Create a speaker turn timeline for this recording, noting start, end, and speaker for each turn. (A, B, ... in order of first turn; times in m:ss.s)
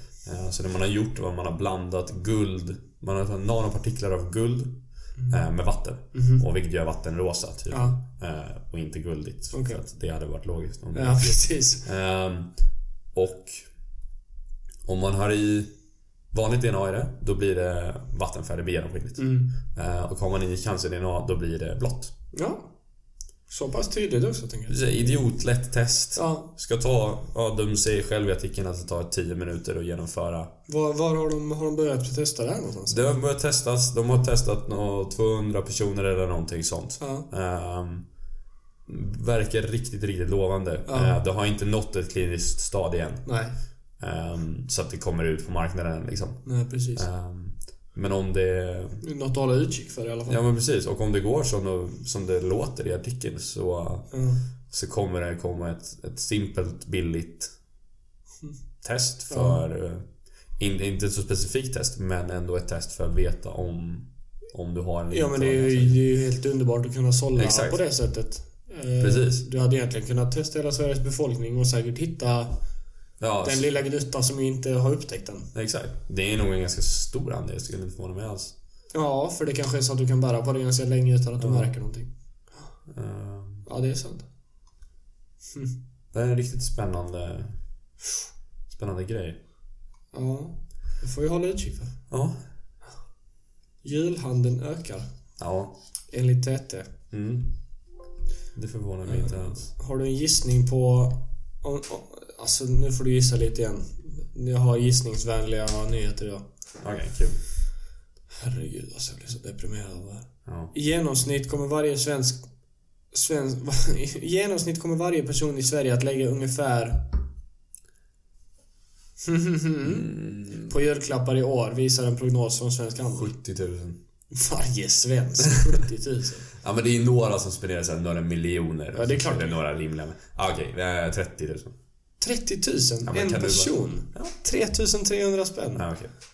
0:00.2-0:04.8 A
0:05.3-0:12.5 A
0:06.1-0:06.4 B
0:07.7-0:08.0 B
0:09.5-0:09.8 B
0:11.0-0:11.8 B
0:13.1-0:13.7 A
0:14.8-0:15.7 A
0:16.3-0:22.1 A
0:19.2-0:19.5 B
0:22.3-0:22.7 B
0:23.5-0:24.8 B
0:24.7-0:30.5 A
0:26.2-0:26.5 B
0:30.7-0:33.2 B
0:32.9-0:38.0 A
0:37.0-0:37.3 B
0:38.9-0:43.2 A
0:40.9-0:41.2 B
0:43.3-0:43.6 B
0:44.0-0:49.0 A
0:46.5-0:47.1 B
0:49.0-0:50.4 B
0:50.3-0:54.1 A
0:54.1-0:54.4 B
0:54.7-0:57.5 A
0:58.8-1:00.0 A
0:59.3-0:59.6 B
1:00.6-1:06.0 A
1:05.1-1:12.6 B
1:07.4-1:07.8 A
1:09.0-1:09.4 A
1:13.2-1:13.7 A
1:13.4-1:15.5 B
1:15.5-1:18.5 A
1:18.9-1:22.1 B
1:21.4-1:21.7 A
1:22.9-1:23.7 A
1:23.7-1:24.2 B
1:26.1-1:27.6 A
1:28.7-1:29.4 A
1:30.1-1:31.9 B
1:32.1-1:32.4 A
1:33.8-1:35.1 B
1:35.4-1:35.7 A
1:36.1-1:36.9 B
1:37.1-1:37.5 A
1:38.6-1:39.7 A
1:39.0-1:46.4 B
1:46.8-1:47.4 A
1:48.4-1:52.5 B
1:50.5-1:50.7 A
1:53.1-1:57.2 B
1:59.2-2:03.3 B
1:59.8-2:00.7 A
2:03.2-2:04.0 A
2:04.3-2:06.5 B
2:06.6-2:11.8 A
2:09.0-2:09.6 B
2:12.2-2:15.8 B
2:13.0-2:14.3 A
2:15.8-2:16.1 A